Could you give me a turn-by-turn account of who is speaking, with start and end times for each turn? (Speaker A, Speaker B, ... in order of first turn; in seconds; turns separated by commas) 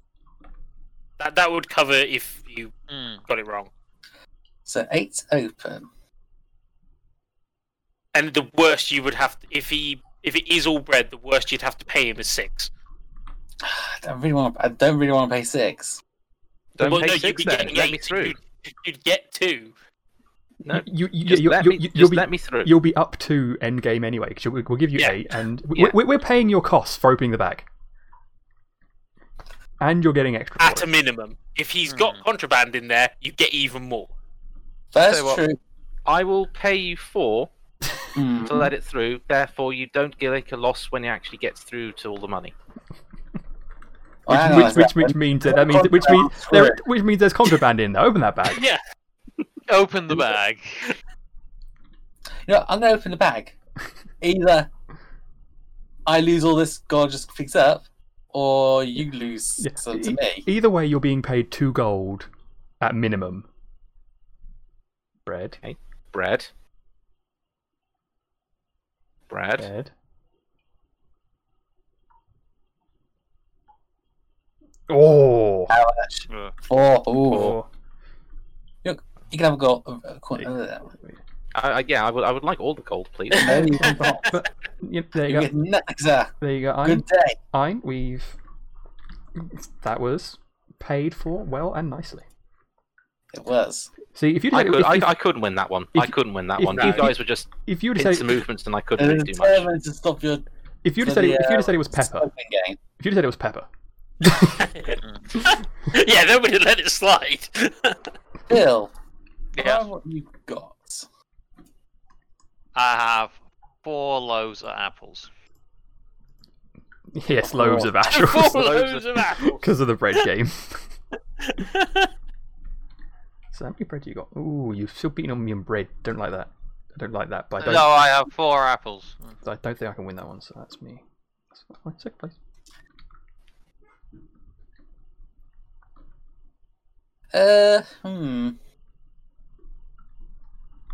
Speaker A: 1.2-2.7, Speaker B: 2.9-3.2, Speaker A: 3.3-3.7, Speaker C: 4.7-5.9, Speaker A: 8.1-12.7, Speaker C: 13.6-16.0, Speaker D: 16.8-18.4, Speaker A: 16.8-19.7, Speaker D: 20.6-22.7, Speaker E: 20.7-27.7, Speaker E: 29.8-30.9, Speaker A: 30.6-34.1, Speaker B: 31.9-32.2, Speaker C: 34.9-35.6, Speaker D: 35.1-35.5, Speaker D: 36.1-37.5, Speaker C: 38.1-38.7, Speaker D: 38.4-42.5, Speaker C: 44.3-46.8, Speaker E: 44.3-48.6, Speaker A: 48.5-48.8, Speaker B: 49.7-51.0, Speaker C: 52.5-53.6, Speaker C: 54.2-54.7, Speaker C: 56.1-60.5, Speaker E: 59.6-62.3, Speaker E: 62.8-63.5, Speaker E: 65.3-65.6, Speaker D: 65.6-66.5, Speaker D: 69.3-69.7, Speaker E: 69.6-69.9, Speaker E: 74.9-75.7, Speaker C: 75.7-77.6, Speaker B: 76.3-76.5, Speaker E: 77.3-77.7, Speaker C: 78.8-80.9, Speaker E: 80.4-81.2, Speaker D: 81.5-83.7, Speaker C: 83.3-84.4, Speaker A: 83.3-84.1, Speaker E: 83.8-85.5, Speaker C: 85.3-87.4, Speaker E: 86.4-88.4, Speaker E: 89.3-92.3, Speaker C: 93.3-93.9, Speaker E: 94.1-95.2, Speaker D: 94.5-99.7, Speaker E: 95.9-98.4, Speaker A: 96.8-97.0, Speaker C: 99.0-100.5, Speaker E: 100.8-102.3, Speaker C: 101.0-102.8, Speaker E: 103.0-103.7, Speaker E: 104.2-104.7, Speaker A: 104.6-108.0, Speaker B: 105.0-105.4, Speaker C: 108.5-108.9, Speaker B: 109.6-109.9, Speaker C: 109.6-111.0, Speaker B: 112.8-115.3, Speaker E: 117.1-118.7, Speaker C: 117.5-117.9, Speaker A: 118.0-119.6, Speaker D: 118.5-119.3, Speaker E: 119.4-120.9, Speaker A: 121.4-122.1, Speaker E: 123.5-128.1, Speaker B: 127.6-129.4, Speaker E: 129.4-132.4, Speaker C: 137.3-138.6